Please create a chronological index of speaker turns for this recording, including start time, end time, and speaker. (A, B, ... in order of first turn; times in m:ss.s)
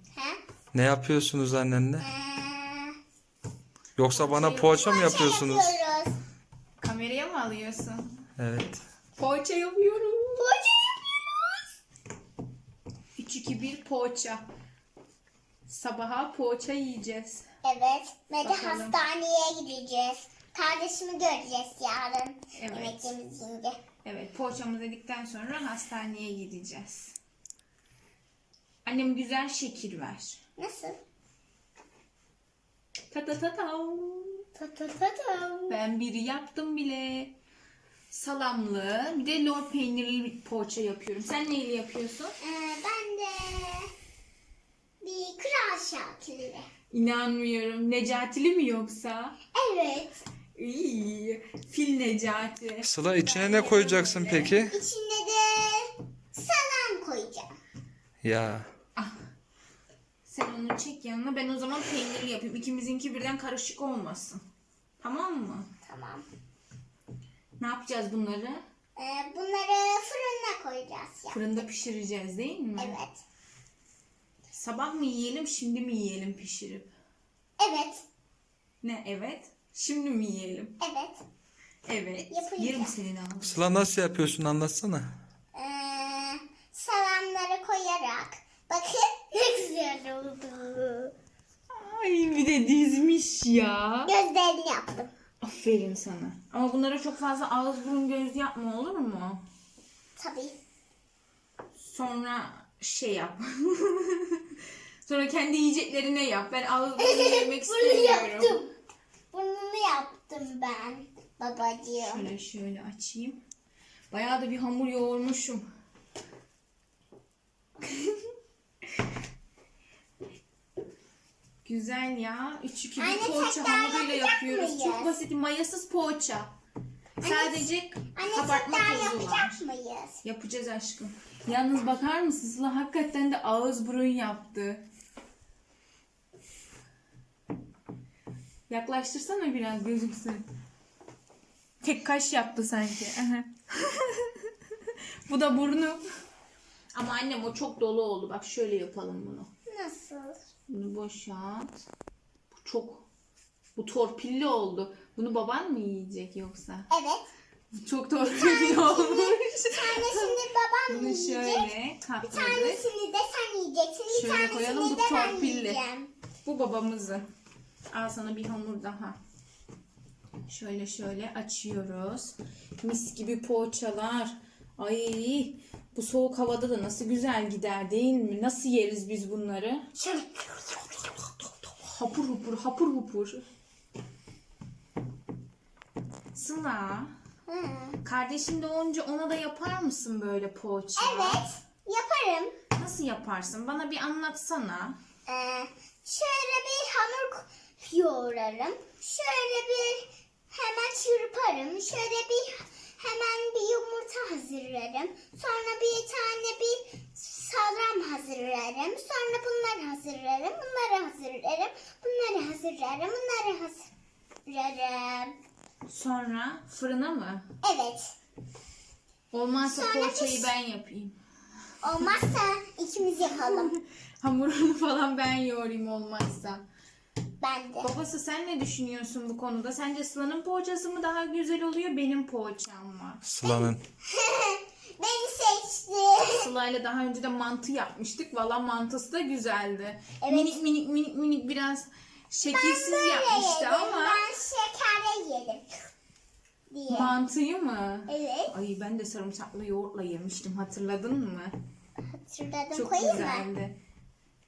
0:00.1-0:00.4 A
0:00.7-0:02.1 B
0:02.0-0:03.0 A
0:04.0-0:05.8 B
0:04.1-0:05.2 C
0:04.8-0:06.2 A
0:06.8-0:08.1 C
0:08.4-0:08.8 B
0:09.2-0:10.5 C
0:10.4-0:11.6 A
0:13.2-0:14.4 C
0:15.7-0:17.5 C
0:17.6-0:23.8 A
0:18.4-0:19.0 C
0:22.5-0:23.1 C
0:24.0-0:27.2 C
0:28.8-0:30.4 C
0:30.6-0:31.0 A
0:33.1-0:34.5 C
0:34.6-0:35.8 A
0:35.7-0:37.4 C
0:38.1-0:42.3 C
0:42.4-0:43.9 A
0:45.0-0:46.7 A
0:46.9-0:49.4 C
0:49.5-0:50.2 A
0:50.6-0:54.6 C
0:52.8-0:54.8 B
0:54.7-0:57.5 A
0:58.2-0:58.7 B
1:00.3-1:04.4 C
1:05.0-1:05.7 C
1:05.8-1:06.2 A
1:07.6-1:08.6 C
1:09.0-1:11.6 A
1:11.3-1:13.0 C
1:12.8-1:13.2 A
1:14.5-1:16.9 C
1:17.6-1:18.0 A
1:18.8-1:20.7 C
1:20.8-1:21.2 A
1:21.9-1:23.9 C
1:22.3-1:23.0 A
1:23.4-1:25.2 B
1:25.5-1:31.1 A
1:31.7-1:34.1 C
1:34.1-1:35.1 A
1:35.4-1:39.4 C
1:40.2-1:40.6 A
1:41.8-1:48.6 C
1:47.0-1:48.7 A
1:49.3-1:52.3 A
1:52.0-1:53.4 C
1:54.1-1:55.6 C
2:01.6-2:06.5 C
2:03.0-2:05.2 A
2:07.2-2:09.6 C
2:07.2-2:10.2 A
2:10.2-2:14.8 C
2:18.7-2:20.4 C
2:21.8-2:26.0 C
2:26.9-2:29.5 C
2:29.7-2:30.4 A
2:30.7-2:31.8 C
2:32.5-2:33.1 C
2:33.8-2:36.9 C
2:36.9-2:37.3 A
2:37.7-2:42.9 C
2:38.4-2:41.7 A
2:42.2-2:46.1 A
2:44.1-2:45.8 C
2:46.4-2:47.3 C
2:47.9-2:49.2 C
2:50.5-2:59.9 C
3:00.0-3:01.0 A
3:01.8-3:03.4 C
3:06.3-3:07.1 C
3:07.5-3:08.0 A
3:08.0-3:11.4 C
3:11.0-3:12.6 A
3:12.7-3:15.0 C
3:15.3-3:33.9 A
3:34.5-3:35.4 A
3:35.9-3:37.5 C
3:37.6-3:38.1 A
3:39.3-3:41.2 C
3:39.6-3:40.5 A
3:41.8-3:43.7 A
3:43.3-3:46.6 C
3:47.4-3:47.9 A
3:47.8-3:53.2 C
3:53.2-3:53.8 B
3:53.4-3:56.5 A
3:56.2-4:04.3 C
4:00.2-4:00.6 A
4:02.5-4:05.7 A
4:06.7-4:07.1 A
4:06.9-4:11.5 C
4:08.1-4:08.5 A
4:12.2-4:13.5 A
4:12.7-4:13.8 C